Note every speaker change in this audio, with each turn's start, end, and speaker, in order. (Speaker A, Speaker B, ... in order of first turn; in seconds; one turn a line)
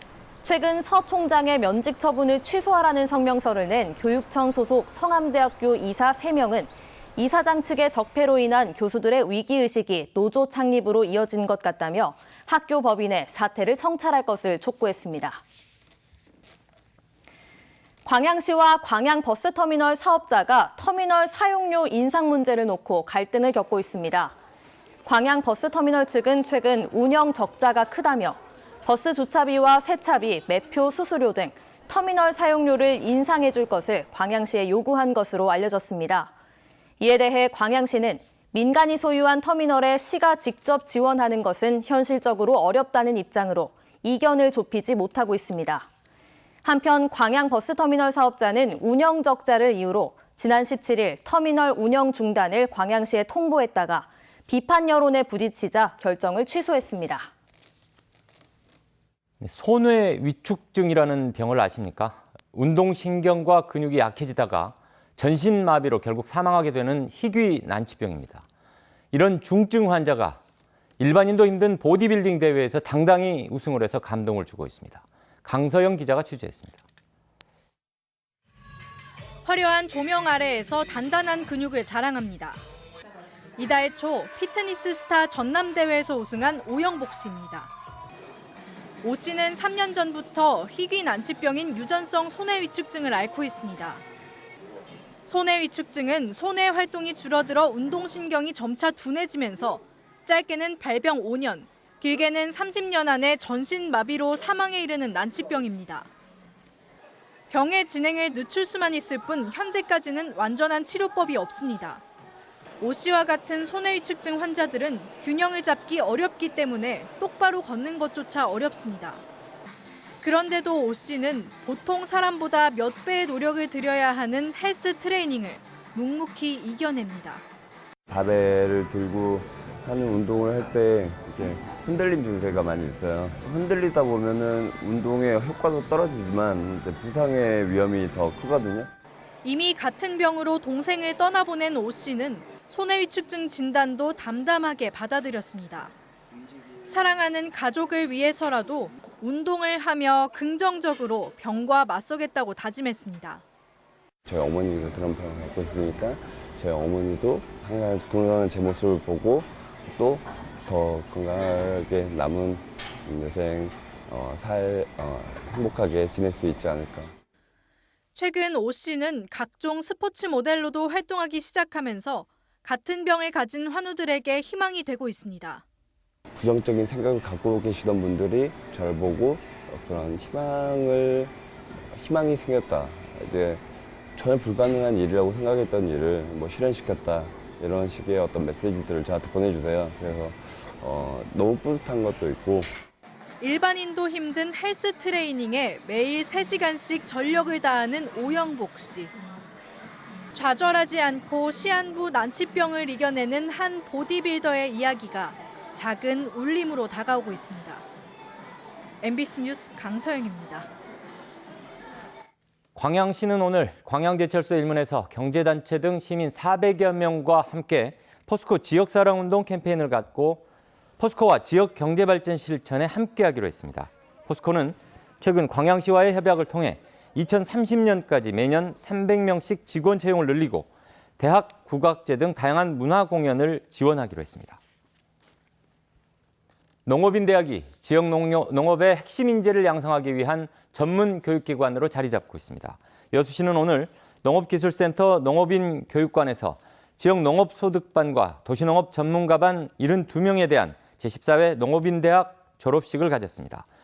Speaker A: 0.4-15.4
Speaker A: 18.0-24.3
Speaker A: 25.0-36.3
Speaker A: 37.0-45.9
Speaker A: 46.6-57.3
Speaker B: 59.4-68.4
Speaker B: 69.1-70.4
Speaker B: 71.0-76.8
Speaker C: 79.5-82.6
Speaker C: 83.6-87.7
Speaker C: 89.0-94.0
Speaker C: 95.3-106.1
Speaker C: 107.5-112.0
Speaker C: 112.8-119.2
Speaker C: 120.2-127.4
Speaker D: 128.1-138.9
Speaker C: 139.4-145.9
Speaker C: 146.9-153.4
Speaker D: 154.3-167.1
Speaker C: 168.1-175.6
Speaker D: 176.3-181.3
Speaker D: 181.9-183.6
Speaker D: 184.2-192.7
Speaker C: 193.4-199.1
Speaker C: 200.3-207.8
Speaker C: 209.0-210.7
Speaker B: 212.8-220.4
Speaker B: 221.0-234.6
Speaker B: 236.8-253.6